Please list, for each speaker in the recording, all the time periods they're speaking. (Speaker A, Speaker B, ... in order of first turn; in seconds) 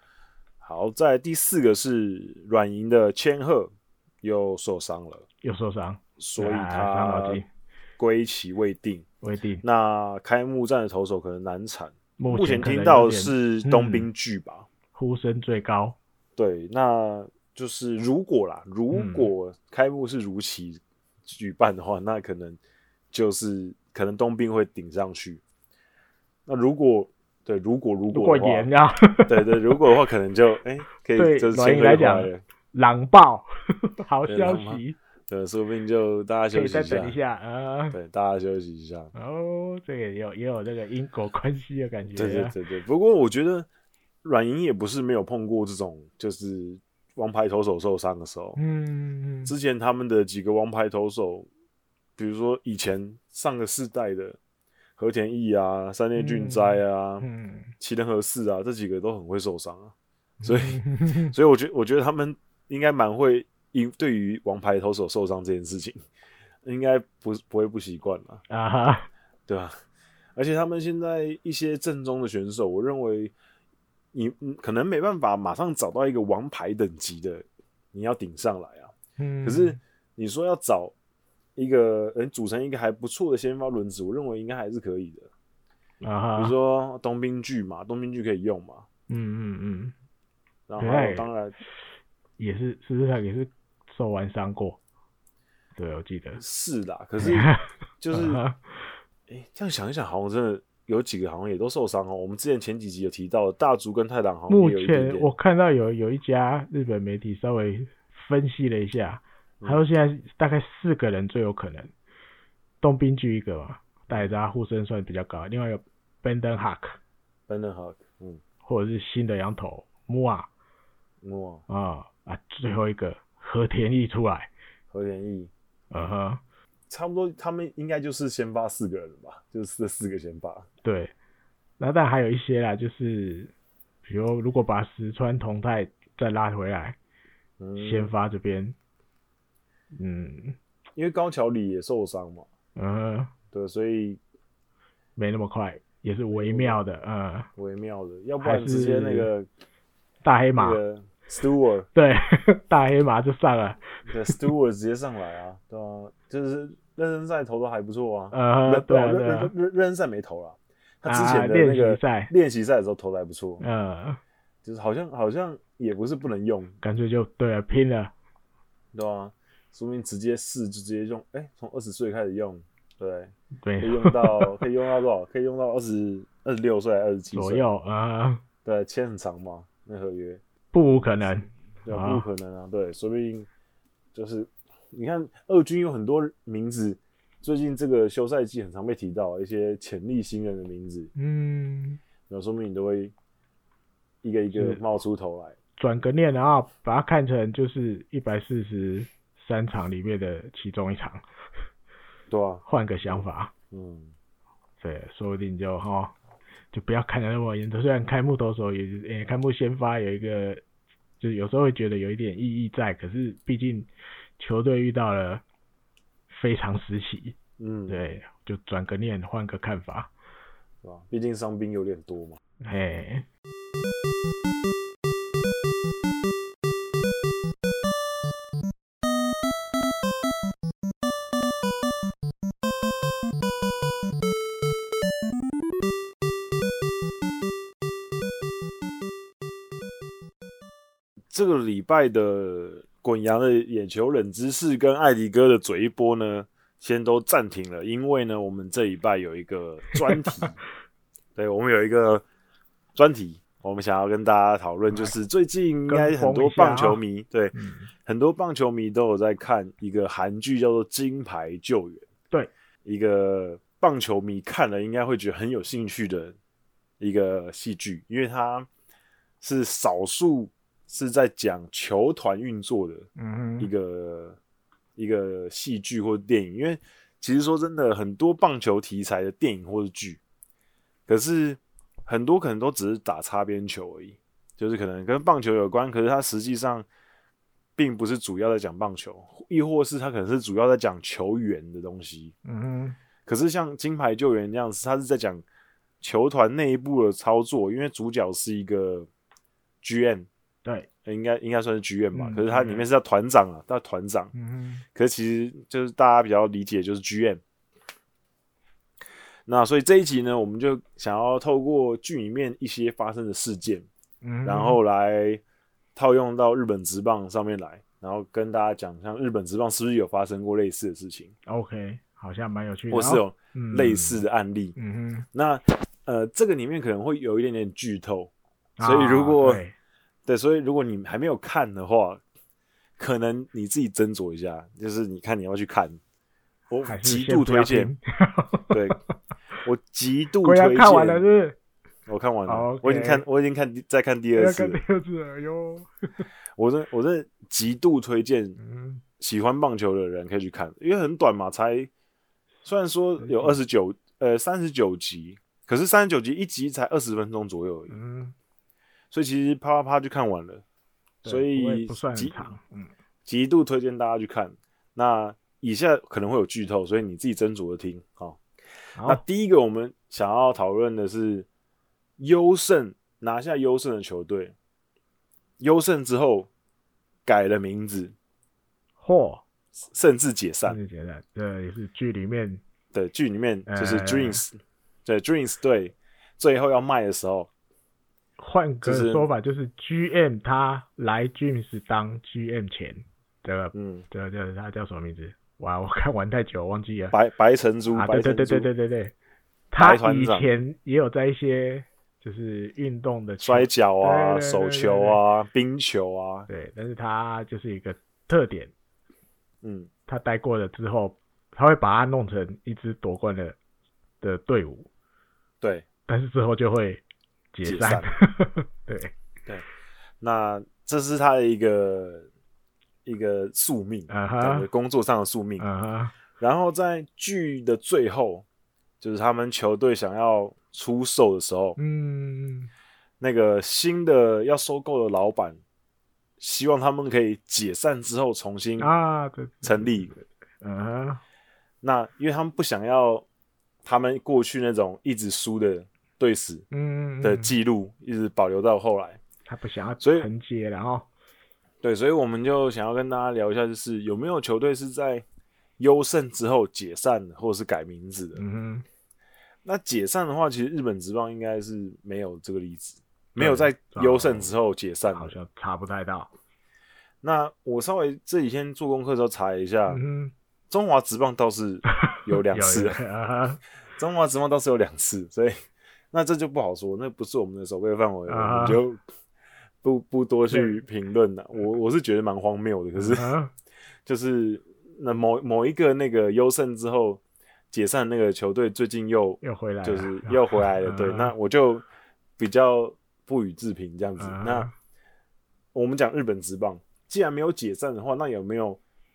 Speaker A: 0.6-3.7, 4.2-5.2, 6.2-7.4, 8.0-9.0, 9.6-14.7, 16.4-22.6, 23.1-25.4, 26.4-28.7, 29.2-32.4, 34.3-37.2, 37.9-39.1, 42.1-43.7, 44.2-48.6, 49.4-51.5, 52.2-54.4, 55.0-57.2, 57.8-66.0, 66.6-68.4, 69.5-69.8, 70.3-73.3, 74.1-80.9, 81.5-85.3, 86.4-88.9, 90.7-91.5, 96.4-98.4, 99.3-105.3, 114.1-114.3, 117.5-118.4, 121.2-121.6, 124.9-125.5, 126.9-130.7, 137.6-138.1, 140.9-142.5, 143.5-144.2, 146.3-146.8, 147.6-149.5, 150.6-151.9, 154.1-163.6, 164.6-166.8, 168.9-177.6, 178.6-180.4, 181.8-183.5, 184.1-191.1, 192.3-193.1, 194.2-195.6, 202.3-204.1, 217.6-218.0, 220.8-222.4, 241.3-250.6, 251.3-252.2, 252.9-257.5, 258.0-262.1, 262.8-266.4, 267.0-268.7, 269.4-273.1, 273.6-274.4, 275.0-280.2, 281.1-286.9, 287.8-292.3, 293.2-295.4, 296.0-299.1, 299.8-300.3, 301.0-304.3, 304.9-307.4, 309.5-313.9, 314.4-315.4, 315.9-321.3, 322.9-324.8, 325.3-329.6, 330.2-332.2, 333.0-336.0, 336.7-337.9, 338.7-339.0, 339.6-341.2, 342.1-344.8, 346.6-348.6, 349.2-351.9, 352.6-357.9, 359.1-360.6, 361.2-362.5, 363.2-368.4, 369.0-371.5, 372.2-374.5, 375.6-376.5, 377.2-378.1, 379.8-380.8, 382.9-387.5, 388.8-389.2, 393.7-394.1, 397.1-398.7, 399.8-400.5, 403.4-406.5, 409.6-409.9, 417.6-418.1, 420.2-422.3, 423.0-425.6, 426.4-428.4, 429.0-431.8, 433.2-435.6, 436.4-438.9, 439.6-440.1, 441.8-443.2, 443.8-446.6, 447.2-449.2, 450.0-450.3, 451.8-455.2, 455.8-458.4, 459.6-465.3, 467.2-470.0, 470.7-473.0, 473.9-475.6, 476.1-479.0, 479.8-483.3, 484.0-487.2, 487.7-491.8, 492.4-494.7, 495.7-498.8
Speaker B: 5.4-7.5, 9.2-9.6, 12.2-14.1, 14.9-16.0, 18.9-19.3, 28.1-29.8, 31.1-33.5, 34.0-35.0, 36.5-38.0, 39.1-42.5, 48.6-49.5, 56.1-57.7, 60.4-61.3, 68.5-69.1, 79.2-79.8, 86.0-86.5, 89.1-89.9, 90.8-91.3, 92.4-94.8, 95.8-96.4, 97.2-98.9, 104.5-111.9, 112.8-117.0, 118.6-120.5, 121.7-124.5, 125.9-126.4, 130.8-131.1, 131.8-133.5, 134.1-137.0, 137.8-138.8, 139.9-140.6, 142.8-143.3, 145.2-147.5, 148.4-149.3, 150.2-150.8, 151.9-154.4, 158.3-159.5, 161.0-162.3, 163.6-164.2, 166.8-168.1, 173.6-174.6, 177.3-178.4, 180.7-182.2, 191.2-192.0, 194.5-194.8, 195.8-201.2, 202.7-203.5, 204.8-206.1, 206.7-210.6, 211.2-215.4, 216.3-217.4, 217.9-220.1, 222.6-223.2, 249.9-250.5, 255.9-257.0, 257.5-257.9, 273.2-273.7, 292.4-293.0, 302.1-302.9, 304.3-304.8, 314.2-314.8, 321.4-324.2, 324.8-325.3, 328.8-329.7, 336.8-339.0, 340.4-341.6, 342.5-343.2, 344.3-346.2, 348.6-349.0, 353.2-353.6, 357.9-358.3, 361.2-362.9, 369.0-369.2, 379.0-379.4, 380.6-382.6, 383.7-384.4, 388.4-397.1, 397.9-399.1, 399.7-405.2, 406.5-408.7, 410.1-413.6, 414.2-414.9, 416.1-417.0, 417.5-419.1, 424.1-424.7, 425.6-426.1, 431.8-432.7, 438.8-441.2, 446.7-447.5, 449.5-451.1, 458.4-458.9, 463.4-464.5, 465.1-466.3, 469.9-470.3, 472.0-473.6, 478.3-478.8, 480.5-480.8, 482.9-483.5, 489.4-491.3, 494.2-494.7